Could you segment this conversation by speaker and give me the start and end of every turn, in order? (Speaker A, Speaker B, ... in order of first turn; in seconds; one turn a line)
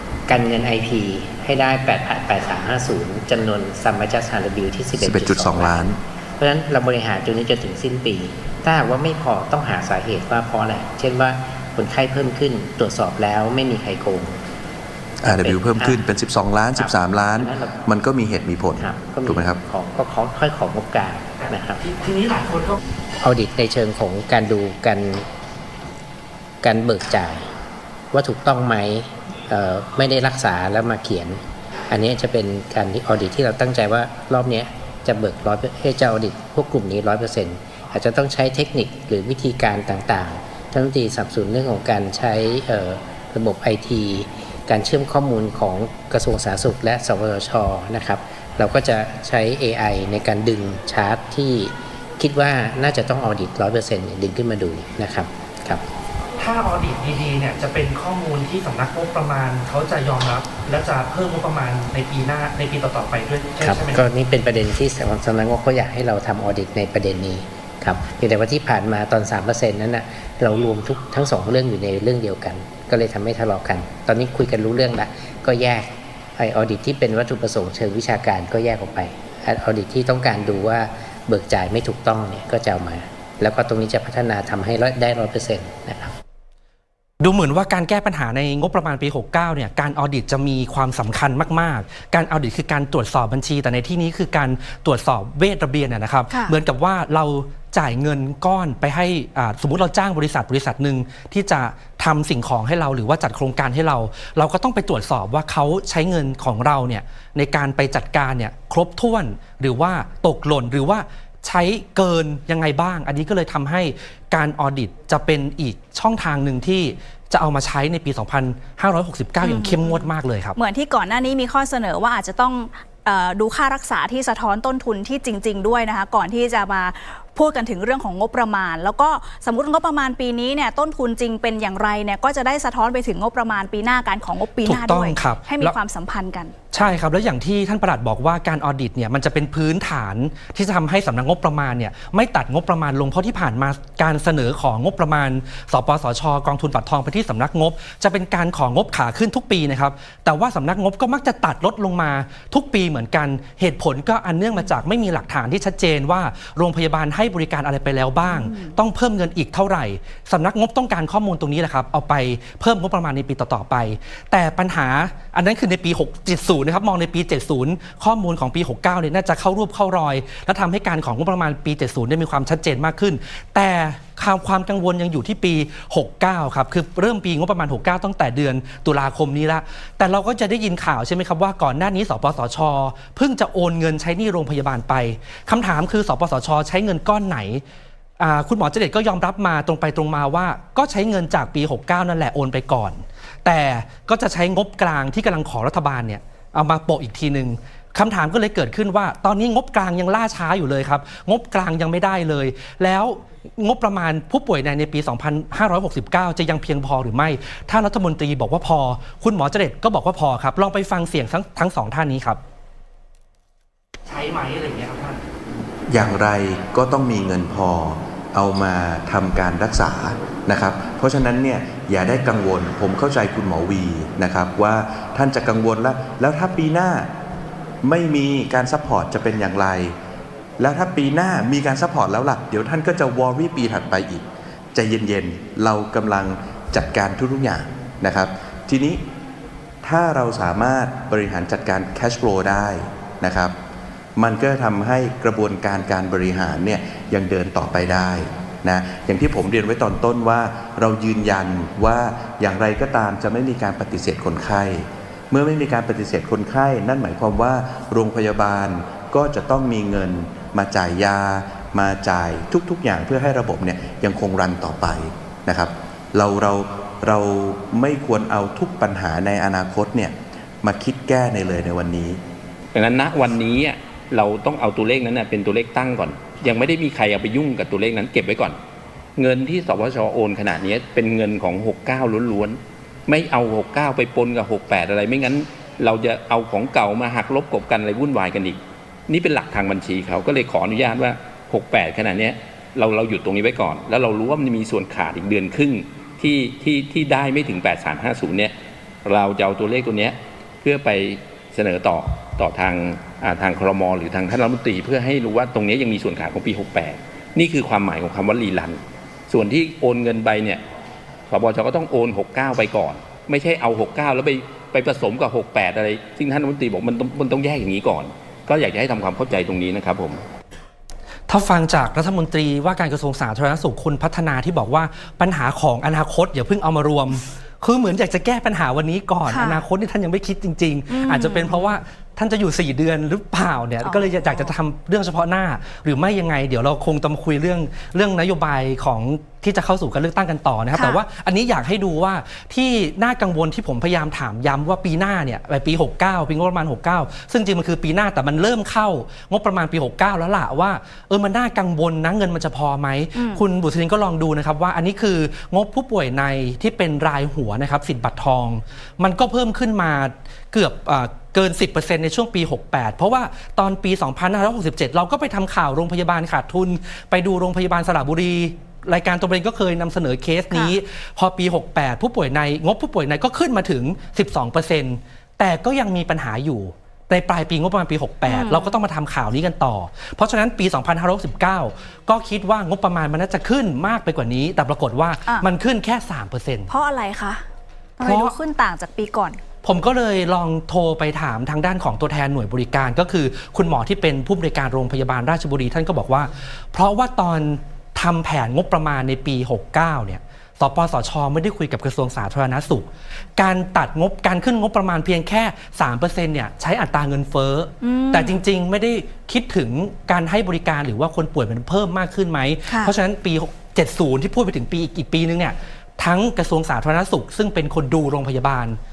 Speaker A: 0.3-14.4
Speaker B: 5.0-6.0
Speaker A: 15.2-16.1
Speaker B: 15.2-19.6
Speaker A: 16.7-18.0
Speaker A: 18.7-21.8
Speaker C: 21.4-22.8
Speaker A: 23.2-25.3
Speaker A: 26.6-27.5
Speaker A: 28.1-55.8
Speaker C: 56.4-64.0
Speaker A: 63.6-86.2
Speaker C: 87.2-120.6
Speaker D: 96.3-96.6
Speaker D: 119.4-136.5
Speaker C: 134.6-135.8
Speaker C: 136.7-187.6
Speaker D: 158.3-158.7
Speaker C: 188.2-212.4
Speaker C: 214.1-215.2
Speaker B: 215.9-227.1
Speaker B: 227.8-230.0
Speaker B: 230.6-239.0
Speaker B: 239.8-243.6
Speaker B: 244.2-272.2
Speaker E: 272.7-278.6
Speaker E: 279.2-298.5
Speaker E: 299.1-310.6
Speaker E: 311.3-320.2
Speaker C: 321.3-386.7
Speaker D: 329.3-329.6
Speaker D: 330.9-331.7
Speaker D: 333.8-334.5
Speaker D: 340.7-341.0
Speaker D: 353.1-353.4
Speaker D: 378.3-378.8
Speaker D: 386.7-387.4
Speaker D: 388.0-389.4
Speaker C: 388.0-388.4
Speaker C: 389.6-418.8
Speaker D: 407.8-408.4
Speaker D: 412.7-412.9